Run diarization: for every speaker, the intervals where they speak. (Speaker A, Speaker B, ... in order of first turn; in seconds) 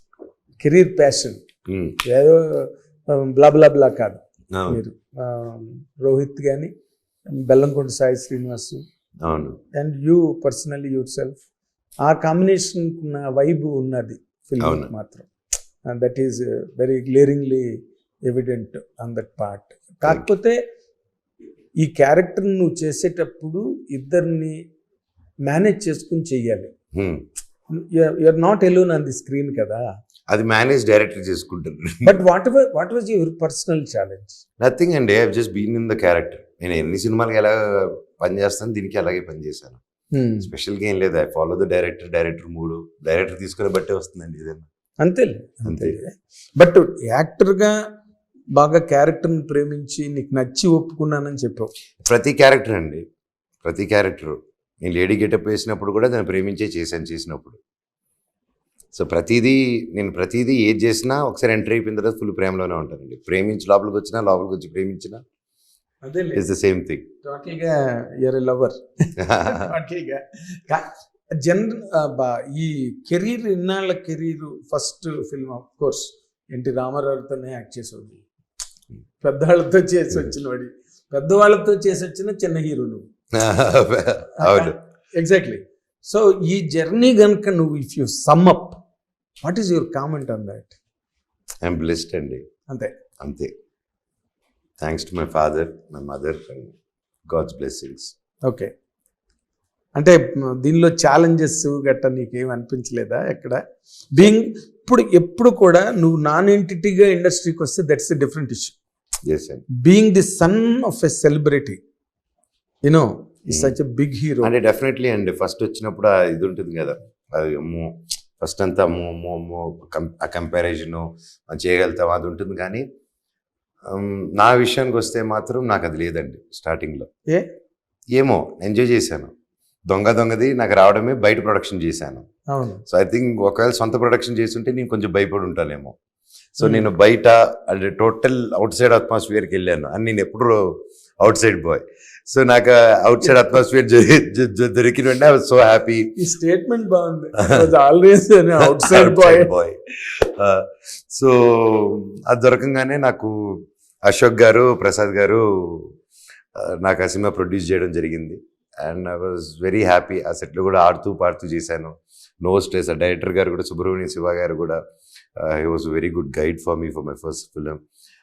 Speaker A: 0.6-1.4, 2.0-6.7, 7.4-8.8, 9.7-11.4, 12.0-15.3, 15.9-17.7, 18.3-20.6, 21.8-24.6, 25.5-26.7, 27.7-29.9, 32.0-34.4, 40.1-40.5, 45.0-47.8, 48.5-51.7, 66.0-66.4, 67.2-78.2, 79.2-83.0, 84.4-88.8, 89.4-90.8, 98.5-98.7, 100.0-103.6, 104.1-108.8, 109.8-111.8, 112.8-114.5, 132.5-132.8, 136.6-136.9, 146.2-149.5
Speaker B: 1.7-2.0, 4.5-4.8, 9.2-9.6, 14.6-14.9, 26.9-27.2, 30.3-32.2, 34.6-39.8, 40.4-44.7, 45.6-46.0, 52.0-53.0, 53.6-57.6, 58.9-65.2, 66.3-67.1, 69.2-69.7, 83.3-84.8, 91.6-92.4, 93.2-93.5, 94.8-96.8, 97.3-98.1, 109.2-109.6, 113.5-113.8, 114.4-122.8, 123.9-127.1, 128.1-129.3, 129.9-132.2, 132.9-135.9, 136.5-146.1, 148.7-155.9, 156.6-164.8, 165.4-167.8